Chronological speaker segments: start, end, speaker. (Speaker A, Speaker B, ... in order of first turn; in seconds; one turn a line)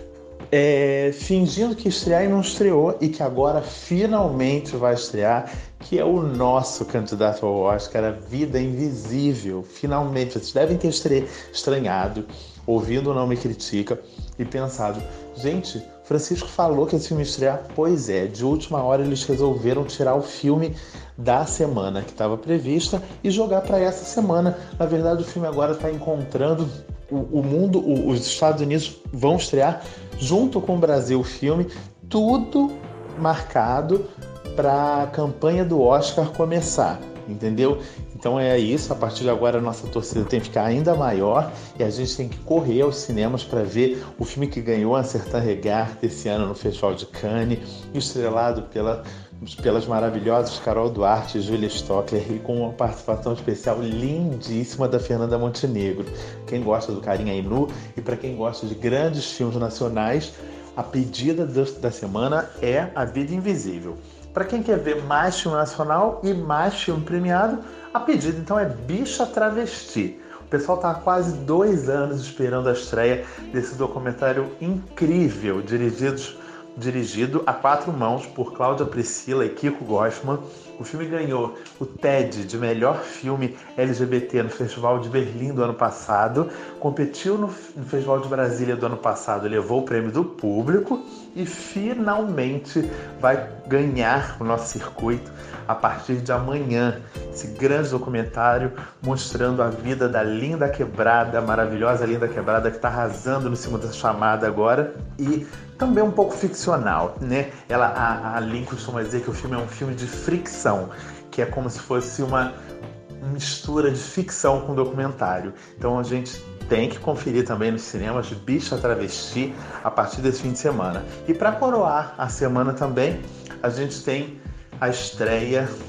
Speaker A: 0.5-112.5
Speaker A: 113.2-125.7